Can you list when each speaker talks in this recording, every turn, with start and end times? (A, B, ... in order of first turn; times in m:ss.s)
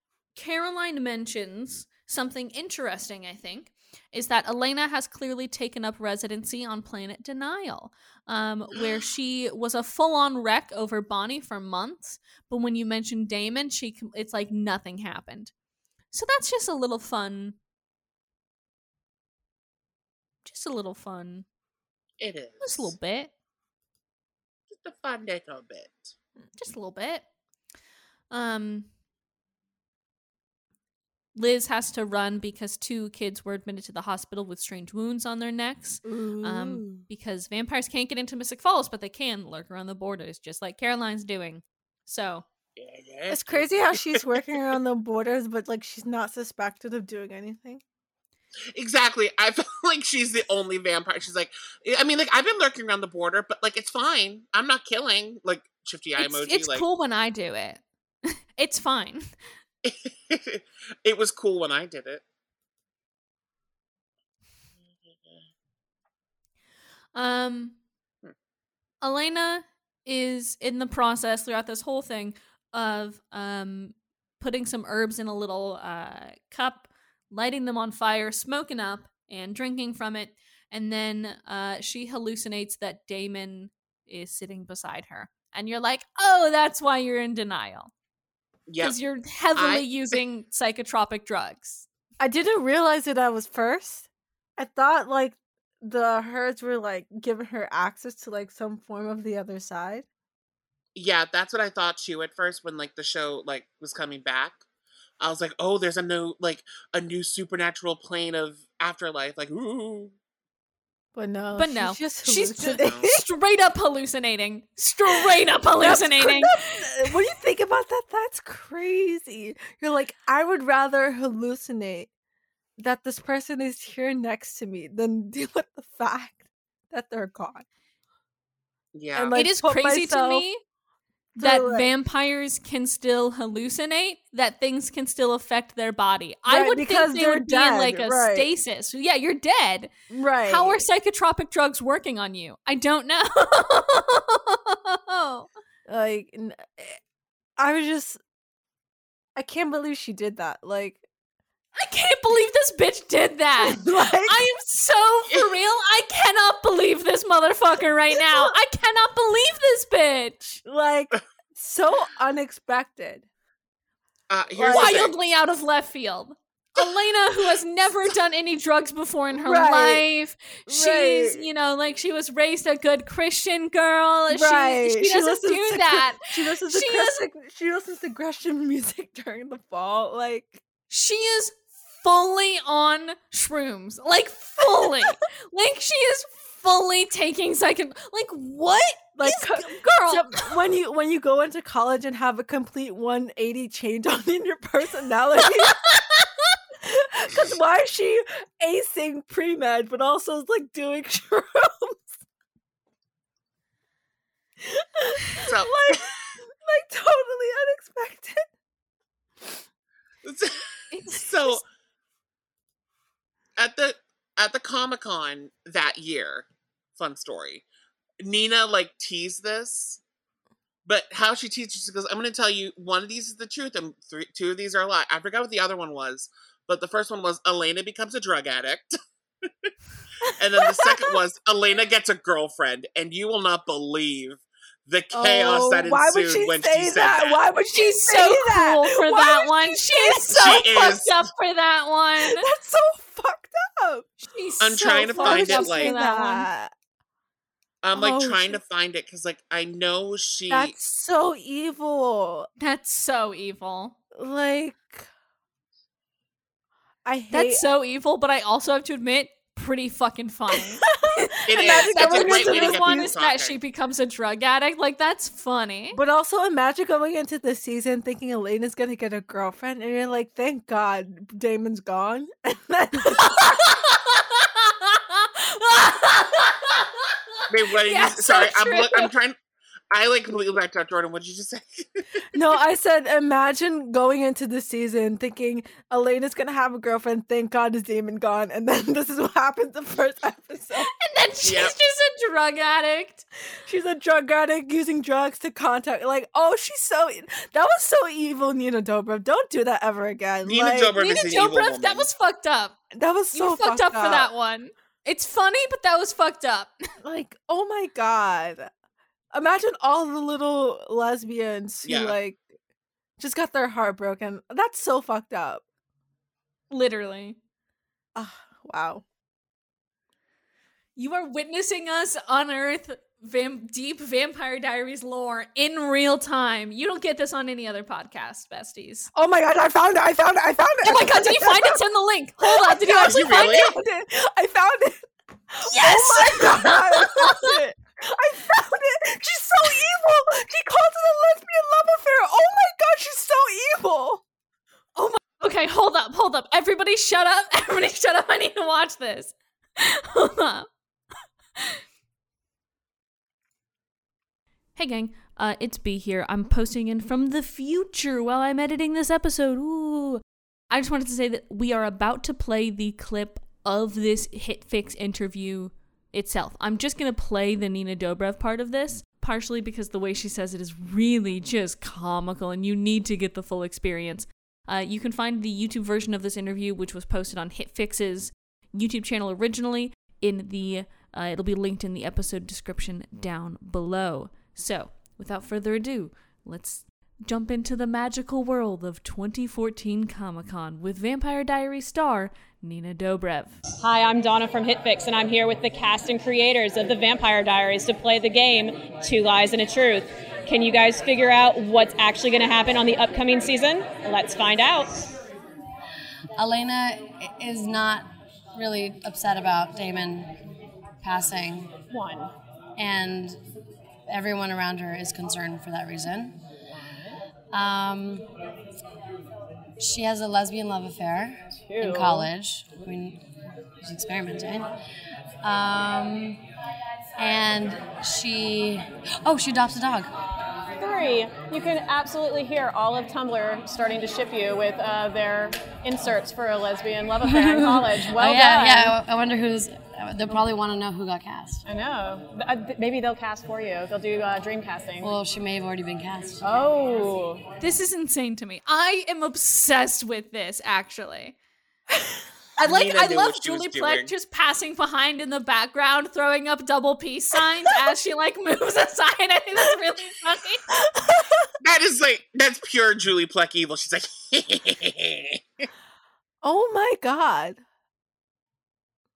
0:00.3-0:15.5 A
0:16.1-0:17.6 A
0:20.4-0:21.4 A
0:22.2-0:22.9 B
0:22.6-0:23.3 A
0:24.7-0:26.1 B
0:26.6-0:27.2 A
0:28.3-0:28.9 A
0:31.3-0:42.4 A
0:36.0-0:37.0 C
0:42.8-0:44.4 B
0:43.3-0:47.8 C
0:48.7-0:56.8 B
0:56.2-0:59.3 A
0:59.8-1:02.2 B
1:07.1-1:07.8 A
1:09.0-1:27.9 A
1:28.7-1:29.0 B
1:28.8-1:31.8 A
1:29.5-1:30.1 B
1:32.2-1:40.0 C
1:40.9-1:44.6 B
1:45.2-1:50.1 B
1:51.1-1:53.2 C
1:51.6-1:57.1 A
1:52.6-1:53.1 B
1:55.1-2:02.1 C
2:02.8-2:07.6 C
2:08.9-2:09.4 B
2:09.1-2:10.4 C
2:09.3-2:10.6 A
2:11.4-2:11.9 C
2:11.4-2:19.9 A
2:16.5-2:18.5 C
2:20.1-2:20.8 C
2:20.4-2:25.5 A
2:25.9-2:27.0 C
2:27.6-2:28.2 C
2:29.4-2:31.0 C
2:31.7-2:40.6 A
2:33.6-2:34.4 C
2:40.6-2:43.2 C
2:44.3-2:45.1 B
2:44.6-2:45.1 C
2:44.6-2:57.2 A
2:49.4-2:50.1 C
2:50.7-2:51.4 C
2:54.3-3:00.6 C
3:00.9-3:10.5 A
3:09.2-3:15.8 C
3:15.8-3:16.2 A
3:16.8-3:22.1 C
3:24.6-3:28.4 C
3:25.4-3:26.1 B
3:30.2-3:31.6 B
3:30.9-3:31.6 A
3:33.6-3:37.6 B
3:38.2-3:40.0 B
3:40.8-3:48.9 B
3:50.2-3:57.4 B
3:50.3-3:51.2 C
3:55.1-4:00.6 C
3:57.7-4:02.4 A
4:00.3-4:01.2 B
4:02.2-4:04.1 C
4:04.3-4:06.5 A
4:04.6-4:05.9 B
4:05.0-4:06.7 C
4:07.8-4:10.7 B
4:07.9-4:08.6 C
4:10.5-4:12.5 C
4:12.6-4:14.0 A
4:14.1-4:15.1 C
4:17.0-4:17.6 C
4:17.3-4:26.0 A
4:20.5-4:23.1 C
4:21.5-4:23.6 B
4:25.9-4:33.6 C
4:33.1-4:39.1 A
4:37.5-4:39.4 B
4:39.9-4:42.2 B
4:42.3-4:50.9 C
4:51.0-4:53.2 A
4:51.4-4:51.7 B
4:53.6-5:01.0 C
5:00.4-5:02.1 B
5:01.0-5:02.8 A
5:02.9-5:04.3 C
5:03.3-5:06.7 A
5:07.0-5:08.7 C
5:09.3-5:12.5 C
5:11.8-5:12.2 B
5:13.2-5:15.6 C
5:16.7-5:17.4 A
5:18.1-5:19.0 C
5:21.0-5:29.1 A
5:29.1-5:31.8 C
5:30.8-5:33.7 A
5:32.4-5:44.2 C
5:33.0-5:33.8 B
5:35.7-5:37.5 A
5:45.0-5:50.7 A
5:54.8-6:33.6 A
6:33.8-6:44.9 D
6:46.4-6:50.3 E
6:51.0-6:51.7 E
6:51.9-6:52.3 D
6:52.8-6:53.4 E
6:54.0-6:56.4 E
6:57.5-6:58.2 E
6:59.8-7:03.2 E
7:01.7-7:02.3 D
7:03.8-7:04.7 E
7:05.4-7:06.4 E
7:07.2-7:10.1 E
7:10.8-7:18.9 D
7:17.2-7:21.6 E
7:21.6-7:25.1 D
7:25.0-7:26.4 E
7:26.4-7:27.4 D
7:27.6-7:31.3 A
7:31.9-7:32.2 C
7:32.6-7:40.6 A
7:32.6-7:34.1 B
7:40.8-7:41.5 C
7:41.6-7:45.7 B
7:46.4-7:47.6 C